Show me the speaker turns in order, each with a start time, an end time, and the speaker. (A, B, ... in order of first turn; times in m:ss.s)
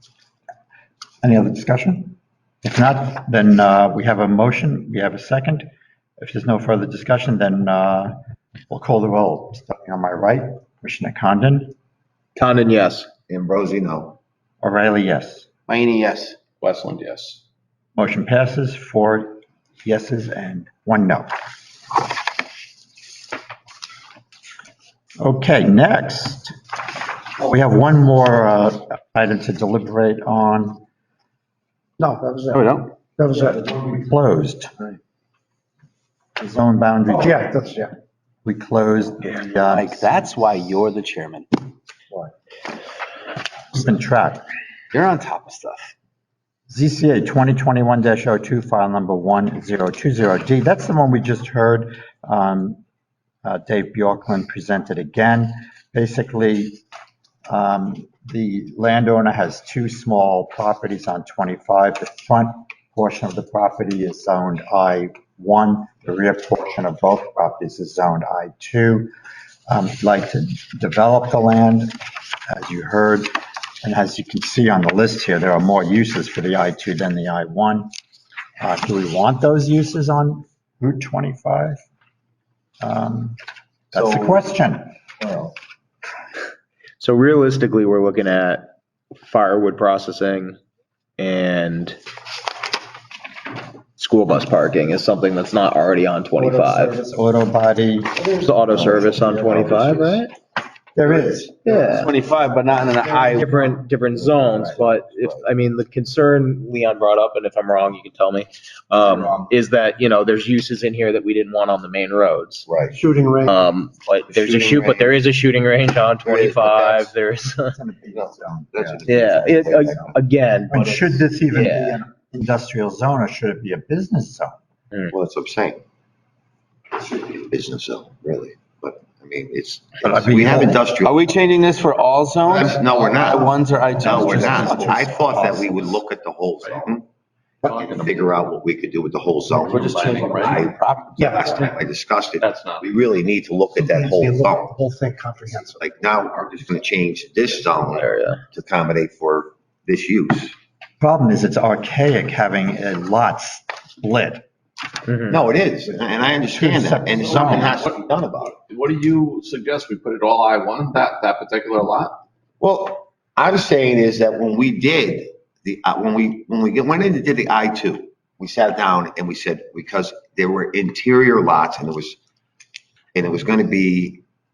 0:01.2-0:08.1 A
0:08.7-0:11.7 A
0:12.4-0:13.1 B
0:13.3-0:14.2 C
0:14.6-0:15.5 A
0:15.7-0:16.4 D
0:16.6-0:17.4 E
0:18.0-0:21.3 A
0:25.2-0:26.5 A
0:27.4-0:30.8 A
0:32.0-0:32.6 F
0:32.5-0:32.9 D
0:33.2-0:33.6 F
0:33.6-0:34.9 A
0:36.4-0:37.5 A
0:37.2-0:37.9 F
0:38.4-0:40.1 A
0:39.7-0:41.5 D
0:43.7-0:44.4 A
0:44.9-0:45.9 D
0:46.7-0:52.8 A
0:53.4-0:56.8 A
0:57.5-1:09.1 A
1:09.7-1:11.9 A
1:12.5-1:17.9 A
1:18.6-1:21.8 A
1:22.8-1:23.4 A
1:23.9-1:24.9 A
1:24.0-1:24.3 D
1:27.0-1:28.7 B
1:29.2-1:30.6 B
1:31.2-1:32.0 B
1:34.0-1:37.0 B
1:36.4-1:36.7 F
1:37.1-1:40.2 A
1:38.2-1:40.3 B
1:40.9-1:41.6 A
1:41.6-1:42.1 B
1:41.6-1:43.8 D
1:43.3-1:52.7 B
1:49.0-1:49.5 D
1:52.6-1:53.0 C
1:53.0-1:53.5 F
1:53.5-1:57.8 B
1:54.3-1:55.2 C
1:56.2-1:57.1 C
1:57.7-2:00.2 A
1:58.1-2:00.2 C
1:59.0-2:00.8 B
2:00.7-2:04.5 A
2:01.5-2:02.0 B
2:05.1-2:05.8 C
2:07.0-2:11.2 C
2:10.0-2:10.8 A
2:11.0-2:15.1 D
2:12.5-2:17.0 C
2:17.6-2:24.7 C
2:17.7-2:18.1 E
2:19.6-2:21.4 D
2:19.6-2:20.7 E
2:21.2-2:21.5 F
2:22.4-2:22.9 E
2:23.9-2:25.8 F
2:25.5-2:30.5 C
2:27.9-2:28.4 B
2:31.0-2:34.4 A
2:35.1-2:35.4 B
2:35.3-2:38.5 C
2:36.5-2:37.7 A
2:37.2-2:42.2 E
2:42.6-2:52.2 C
2:53.1-2:54.2 C